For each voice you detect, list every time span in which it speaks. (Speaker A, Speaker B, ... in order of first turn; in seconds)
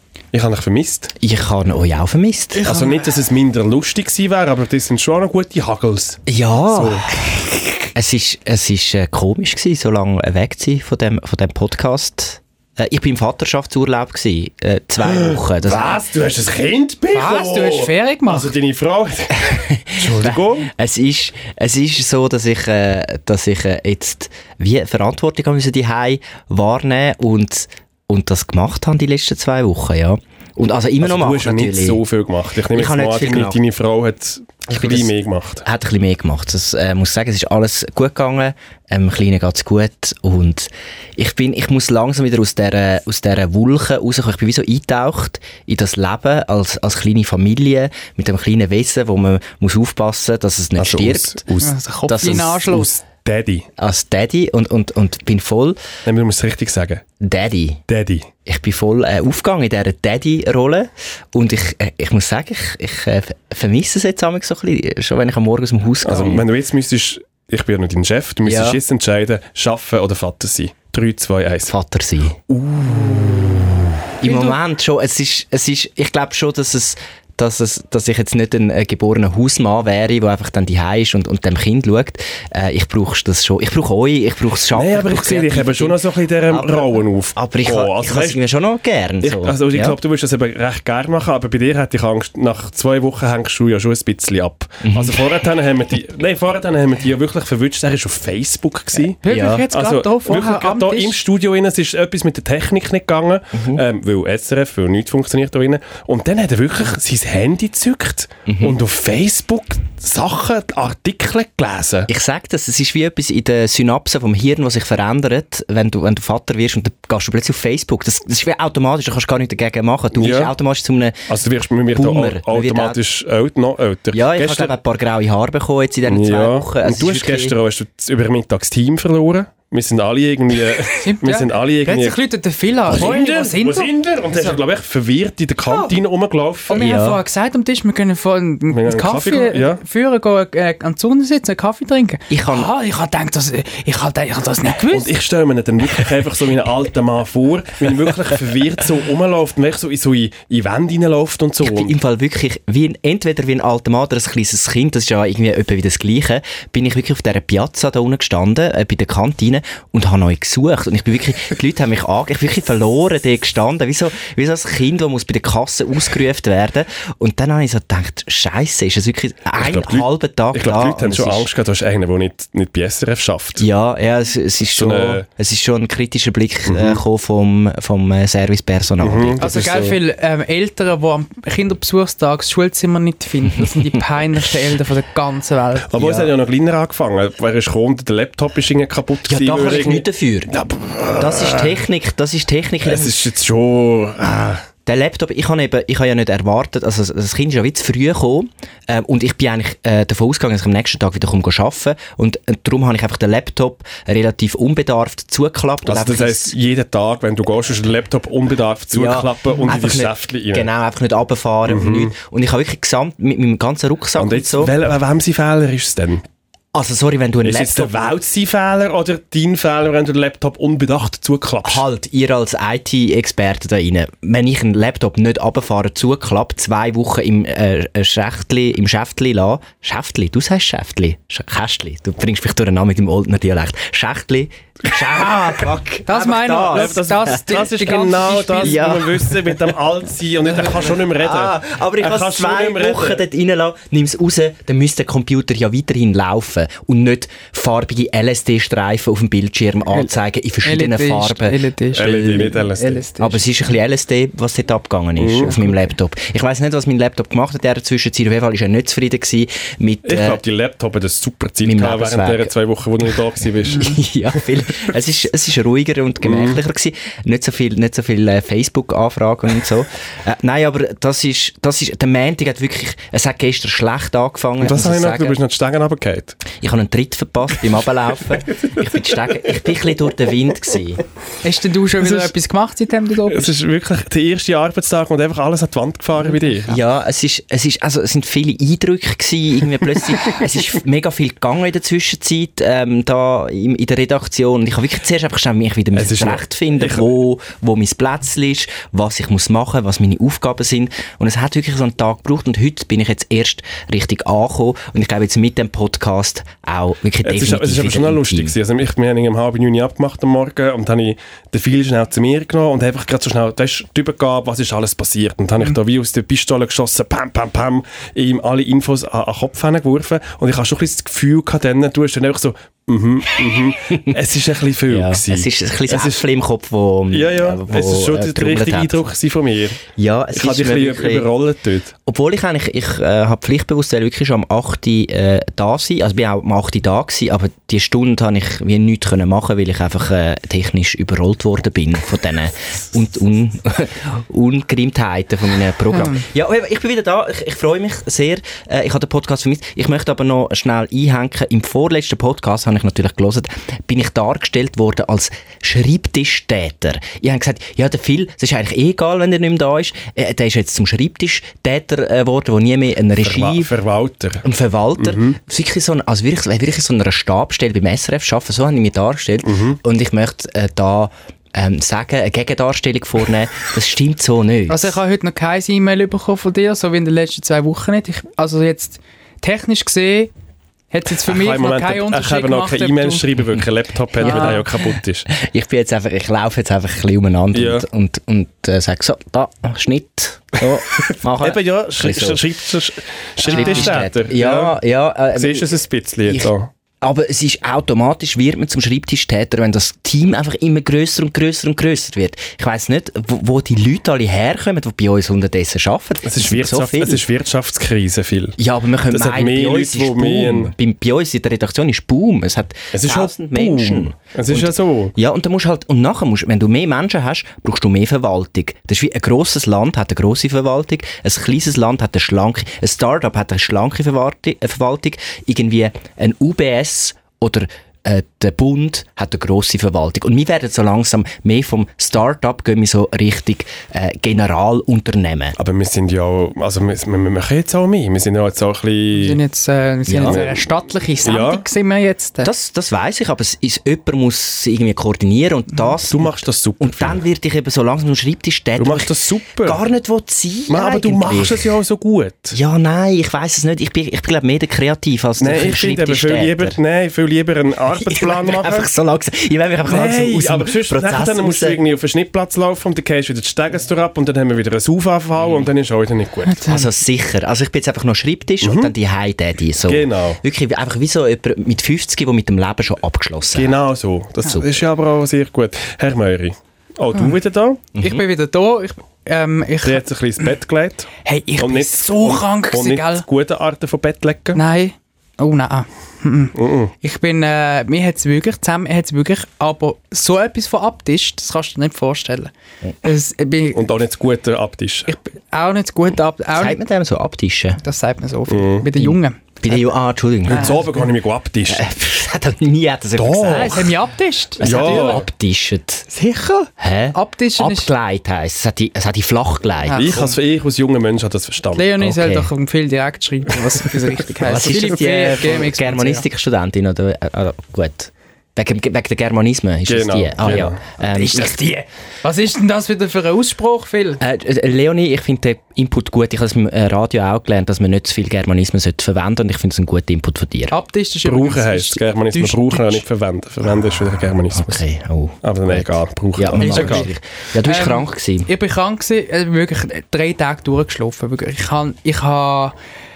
Speaker A: 0.3-1.1, 2.6-7.1, 15.0-20.7, 31.0-35.7, 50.8-53.7, 56.1-57.0, 57.9-58.3, 66.0-71.7, 72.5-73.8, 84.7-88.4, 89.2-99.2, 99.7-112.1, 120.2-120.5, 121.3-124.7, 126.0-132.2, 132.9-136.8, 138.7-139.8, 144.9-152.0, 169.6-173.7, 174.8-175.2, 176.7-177.0, 179.0-180.0, 185.9-191.8, 192.8-194.7, 205.9-210.7, 211.7-212.1, 214.2-216.2, 217.4-221.8, 236.7-243.2, 251.9-253.0, 255.2-255.6, 260.0-264.0, 266.2-266.6, 274.6-276.4, 282.0-282.3, 283.3-286.8, 295.9-297.1, 307.2-326.2, 327.1-331.9, 363.2-364.4, 365.0-365.4, 369.4-369.8, 381.2-385.3, 387.5-387.9, 391.1-394.8, 395.3-396.7, 406.2-408.6, 409.1-410.7, 412.9-415.1, 435.6-439.4, 440.2-440.7, 441.2-441.6, 446.1-447.2, 448.8-449.8, 450.7-452.6, 455.4-458.9, 459.9-466.7, 468.6-468.9, 469.8-470.4, 473.5-477.8, 479.8-484.6, 486.6-486.9, 493.8-495.1, 498.5-498.9, 500.5-501.8, 503.2-504.0, 504.6-505.3, 509.9-511.9, 519.9-520.8, 531.2-534.8, 535.4-537.1
Speaker B: 1.2-2.7, 6.3-16.0, 19.4-32.0, 32.7-33.6, 34.7-51.4, 52.1-52.6, 53.8-55.8, 57.2-57.8, 58.5-66.5, 68.4-68.8, 71.7-72.4, 74.2-86.0, 86.5-90.0, 94.9-95.2, 99.3-99.7, 103.5-103.8, 108.5-108.8, 112.1-121.2, 122.0-123.0, 124.1-127.6, 136.8-137.2, 142.3-142.7, 151.6-171.5, 173.6-179.4, 185.9-186.3, 189.3-190.5, 191.2-193.2, 194.9-206.6, 208.9-214.7, 216.7-218.0, 221.6-237.1, 238.6-239.4, 240.6-252.7, 253.2-260.4, 261.6-262.5, 263.7-275.4, 276.5-281.0, 286.6-308.6, 324.9-329.1, 330.0-331.3, 332.1-363.7, 364.4-375.0, 384.2-384.6, 385.3-392.5, 393.4-395.8, 397.0-407.2, 408.6-435.6, 440.1-440.4, 442.4-451.7, 452.5-456.8, 457.9-461.8, 466.6-473.7, 477.9-478.2, 496.6-497.8, 499.0-500.8, 501.7-503.9, 504.6-506.1, 506.8-510.2, 512.0-512.5, 514.4-521.6, 524.2-530.8, 534.5-538.5
Speaker C: 2.6-3.1, 17.1-18.5, 51.6-52.9, 99.2-101.2, 131.0-133.9, 136.7-145.1, 179.4-185.9, 236.1-239.0, 250.6-253.4, 281.4-283.5, 346.0-346.2, 374.7-380.3, 380.9-383.3, 384.2-384.7, 393.5-394.0, 439.1-442.5, 466.5-466.9, 478.0-480.5, 481.2-483.2, 484.6-492.5, 493.0-493.9, 495.1-496.8, 497.8-499.6, 500.5-500.8, 503.5-505.2, 506.1-507.9, 509.9-510.3, 511.8-516.2, 521.0-524.2, 530.7-533.0, 536.6-542.8